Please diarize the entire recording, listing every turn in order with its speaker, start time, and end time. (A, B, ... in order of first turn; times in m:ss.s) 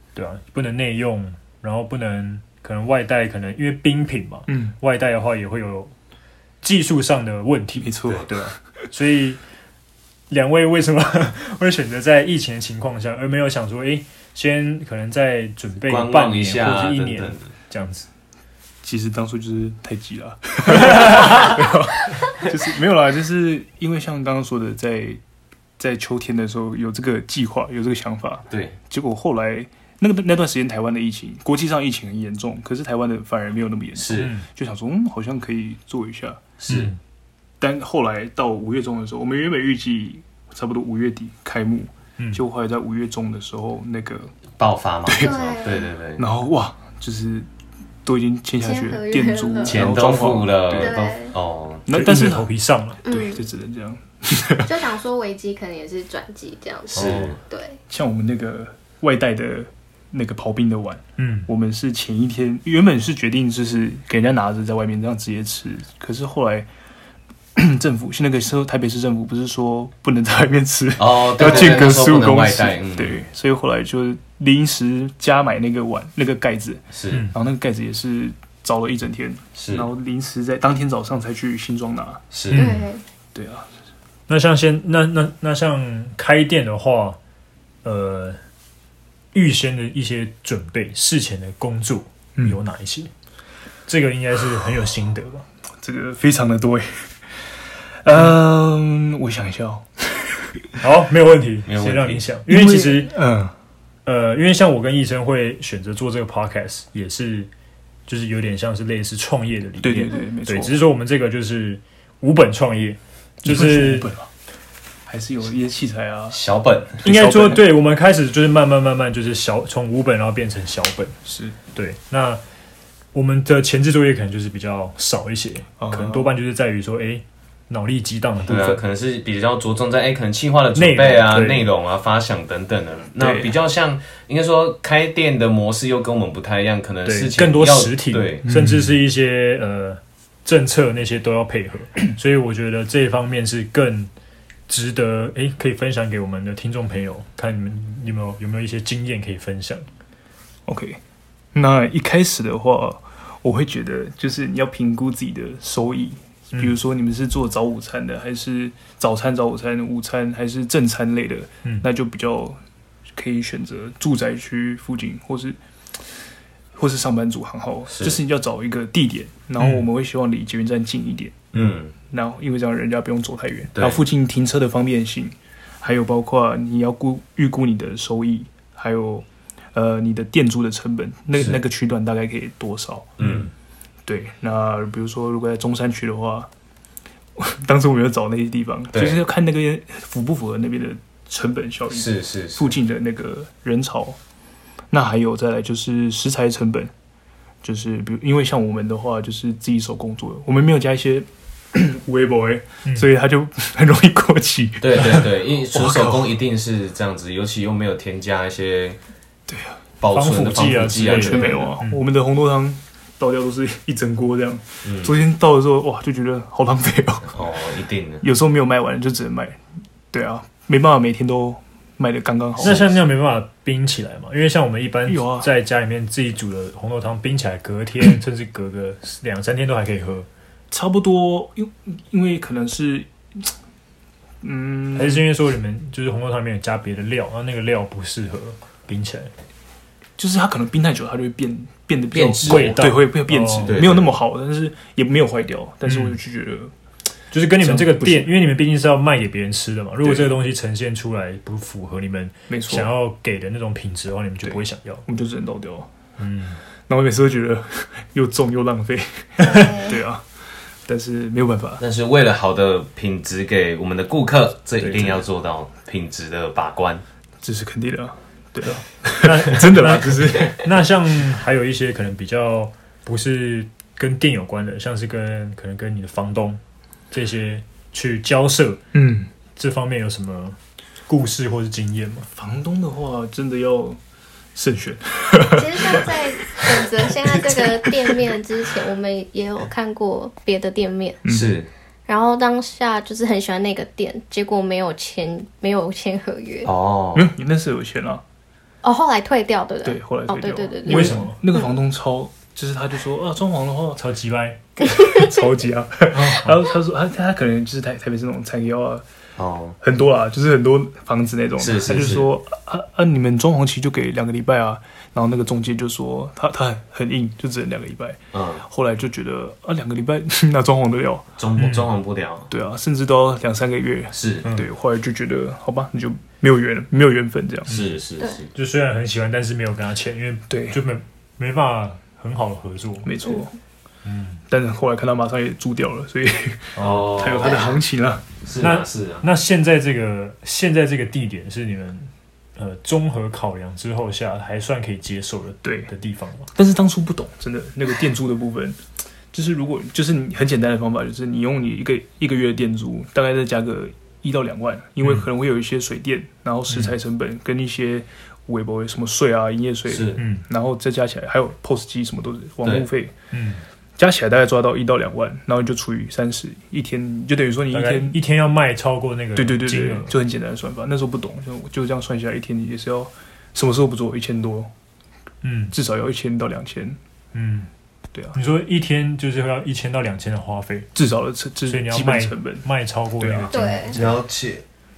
0:00.2-0:05.9 A
0:06.6-0:09.4 A
0:07.8-0:08.5 B
0:10.3-0:18.1 A
0:15.9-0:17.4 C
0:18.8-0:25.2 B
0:25.8-0:36.4 B
0:28.5-0:28.7 C
0:34.0-0:34.3 C
0:34.1-0:34.4 A
0:36.6-0:36.9 C
0:36.7-0:37.0 A
0:37.6-0:44.3 B
0:44.6-0:46.2 C
0:45.0-0:45.4 B
0:45.2-0:45.9 D
0:46.2-0:47.5 B
0:48.0-0:51.0 B
0:48.6-0:49.8 D
0:49.6-0:51.9 C
0:50.7-0:51.3 D
0:51.8-0:52.5 B
0:51.9-0:53.0 A
0:53.0-0:54.7 B
0:53.0-0:53.4 D
0:54.6-0:57.8 D
0:56.9-0:57.4 C
0:57.0-0:57.3 A
0:57.9-1:06.7 B
1:01.2-1:01.5 A
1:07.5-1:22.2 B
1:11.0-1:13.2 C
1:16.9-1:17.2 C
1:19.6-1:19.9 C
1:22.3-1:22.7 C
1:22.5-1:22.9 A
1:22.5-1:23.0 D
1:23.3-1:23.7 B
1:24.3-1:27.2 A
1:27.8-1:28.4 A
1:29.3-1:33.1 A
1:33.9-1:35.4 A
1:35.8-1:37.2 B
1:37.8-1:40.7 B
1:40.8-1:43.1 A
1:41.7-1:42.2 C
1:42.5-1:43.5 B
1:44.0-1:47.5 A
1:48.1-1:54.1 A
1:49.8-1:50.8 B
1:53.4-1:54.3 B
1:55.1-1:56.4 B
1:56.3-1:57.0 C
1:57.0-1:57.7 B
1:57.0-2:01.2 A
2:01.2-2:01.6 B
2:01.7-2:02.4 A
2:03.1-2:08.8 A
2:05.8-2:06.3 B
2:08.4-2:18.4 C
2:10.7-2:11.7 A
2:13.2-2:13.5 B
2:17.0-2:24.1 A
2:18.4-2:18.9 B
2:24.7-2:29.9 A
2:30.6-2:31.0 B
2:31.5-2:42.6 B
2:43.1-2:46.2 B
2:46.7-2:51.5 B
2:47.9-2:48.2 C
2:49.6-2:49.9 A
2:51.5-2:51.9 C
2:52.1-3:03.3 B
2:53.7-2:54.0 C
3:03.2-3:03.5 C
3:04.0-3:06.5 B
3:07.4-3:14.2 B
3:08.9-3:09.2 C
3:11.9-3:12.7 C
3:14.9-3:16.9 B
3:17.6-3:26.4 B
3:24.8-3:29.0 C
3:29.5-3:29.8 B
3:30.0-3:31.5 C
3:30.1-3:32.0 A
3:31.0-3:37.5 B
3:31.3-3:31.7 D
3:34.8-3:35.1 C
3:37.3-3:38.2 C
3:38.2-3:42.9 B
3:42.6-3:50.3 A
3:42.6-3:42.9 C
3:45.0-3:45.5 B
3:50.7-3:53.5 B
3:54.4-3:55.3 B
3:54.9-3:59.3 A
4:00.2-4:06.7 B
4:02.1-4:02.8 C
4:02.4-4:03.8 A
4:03.7-4:04.1 C
4:05.8-4:06.2 A
4:07.3-4:15.0 A
4:07.6-4:08.3 B
4:10.0-4:10.3 B
4:12.5-4:12.9 B
4:14.4-4:15.9 B
4:16.2-4:16.6 A
4:16.9-4:20.2 B
4:19.4-4:20.0 D
4:20.8-4:21.8 B
4:21.8-4:27.0 C
4:24.8-4:25.2 A
4:24.9-4:25.2 B
4:27.4-4:30.6 B
4:29.2-4:36.6 A
4:37.1-4:38.8 A
4:38.9-4:39.3 B
4:39.6-4:40.6 A
4:41.1-4:42.3 A
4:42.3-4:44.0 B
4:44.5-4:46.1 B
4:45.5-4:51.2 D
4:46.6-4:48.3 B
4:51.2-4:51.5 B
4:51.3-4:51.7 C
4:52.1-4:56.7 D
4:56.6-4:57.3 C
4:57.1-4:58.2 B
4:58.8-5:01.2 D
4:59.8-5:04.0 B
5:00.8-5:01.4 A
5:04.0-5:04.6 A
5:04.8-5:09.0 B
5:06.1-5:06.6 A
5:09.4-5:09.8 C
5:09.8-5:21.4 B
5:11.6-5:12.3 C
5:18.3-5:18.6 C
5:21.4-5:22.5 C
5:21.6-5:21.9 A
5:22.5-5:27.8 B
5:24.1-5:24.4 C
5:27.7-5:28.5 C
5:27.7-5:27.9 A
5:28.5-5:33.1 A
5:30.5-5:30.8 B
5:33.0-5:33.5 B
5:34.0-5:34.4 A
5:34.5-5:38.2 B
5:36.8-5:37.7 C
5:36.8-5:37.1 A
5:38.4-5:39.2 C
5:38.6-5:46.5 A
5:45.6-5:45.9 B
5:46.5-5:48.8 B
5:49.3-6:03.1 B
5:56.7-5:56.9 A
5:59.9-6:00.2 C
6:00.2-6:00.4 A
6:03.3-6:03.6 A
6:04.0-6:08.2 B
6:07.7-6:10.1 A
6:09.4-6:14.7 B
6:15.4-6:15.7 A
6:15.7-6:17.0 B
6:17.3-6:17.7 A
6:18.3-6:20.9 A
6:20.9-6:22.7 B
6:21.7-6:24.2 A
6:23.2-6:23.6 B
6:23.5-6:23.9 D
6:23.9-6:24.6 C